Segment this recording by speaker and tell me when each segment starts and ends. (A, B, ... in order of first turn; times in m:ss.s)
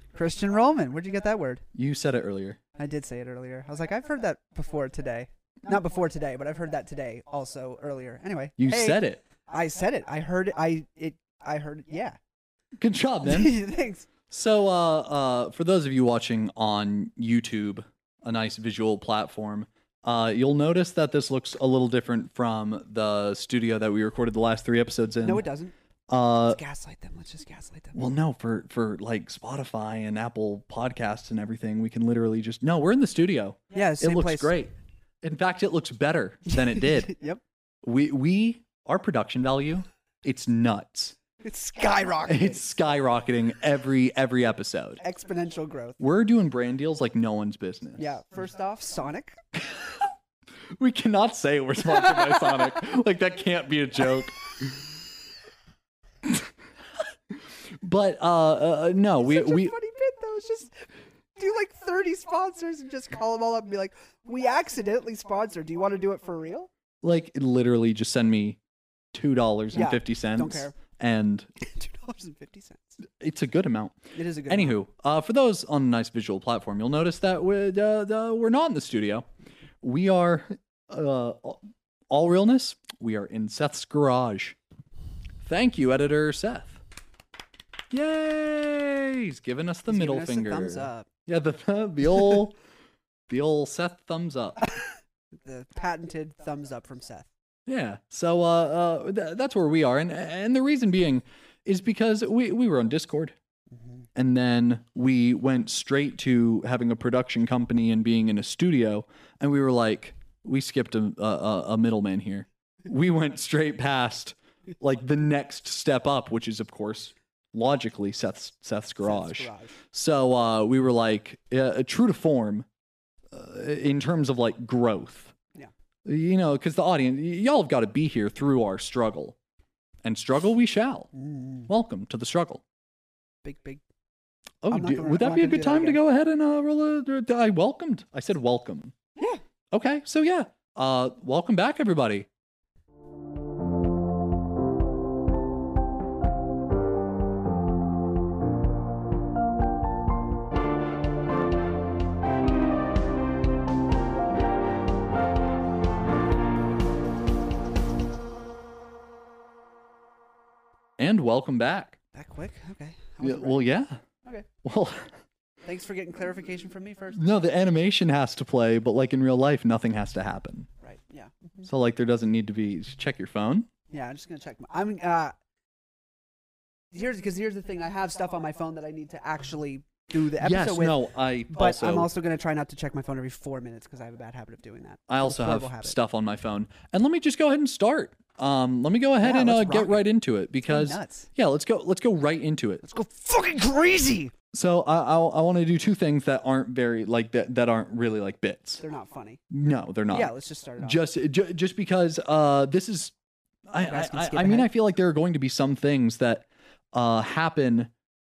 0:00.1-0:01.6 A
0:01.7-0:02.6 B
0:02.8-0:12.2 A
0:08.6-0:09.2 B
0:12.8-0:13.6 B
0:13.2-0:14.1 A
0:14.3-0:25.4 B
0:25.2-0:25.7 A
0:26.1-0:26.6 B
0:26.5-0:28.0 A
0:27.9-0:37.1 B
0:33.7-0:34.5 A
0:36.5-0:37.4 A
0:37.8-0:41.2 B
0:41.4-0:42.6 A
0:42.3-0:45.0 B
0:45.0-0:46.0 A
0:46.0-0:48.1 B
0:48.0-0:49.4 A
0:50.8-0:54.8 B
0:57.7-0:59.8 B
0:59.2-1:06.7 A
1:07.0-1:08.6 B
1:09.1-1:11.5 B
1:09.7-1:10.8 A
1:11.6-1:13.0 A
1:13.2-1:19.3 B
1:14.1-1:14.8 A
1:19.8-1:24.6 B
1:25.4-1:26.8 B
1:27.9-1:32.6 B
1:29.9-1:31.1 A
1:33.3-1:34.7 B
1:35.3-1:37.3 A
1:37.7-1:43.4 B
1:44.2-2:02.7 B
1:59.0-1:59.8 A
2:03.3-2:05.4 B
2:06.0-2:09.4 B
2:10.0-2:11.1 B
2:11.1-2:11.7 A
2:11.7-2:12.6 B
2:13.4-2:13.8 A
2:14.6-2:19.0 B
2:14.7-2:16.0 A
2:19.2-2:19.4 A
2:19.7-2:22.3 B
2:41.0-2:42.0 B
2:42.1-2:43.7 A
2:43.2-2:44.0 B
2:44.6-2:45.2 B
2:45.6-2:47.3 A
2:47.1-2:50.7 B
2:50.8-2:51.6 A
2:51.6-2:53.7 B
2:53.9-2:55.4 A
2:56.9-3:01.0 A
3:00.4-3:02.1 B
3:01.5-3:06.0 A
3:05.1-3:12.8 B
3:09.2-3:10.1 A
3:10.6-3:11.3 A
3:12.8-3:14.3 A
3:14.5-3:18.8 B
3:18.8-3:19.4 A
3:19.5-3:23.1 B
3:20.1-3:21.0 A
3:23.7-3:27.9 B
3:23.8-3:24.7 A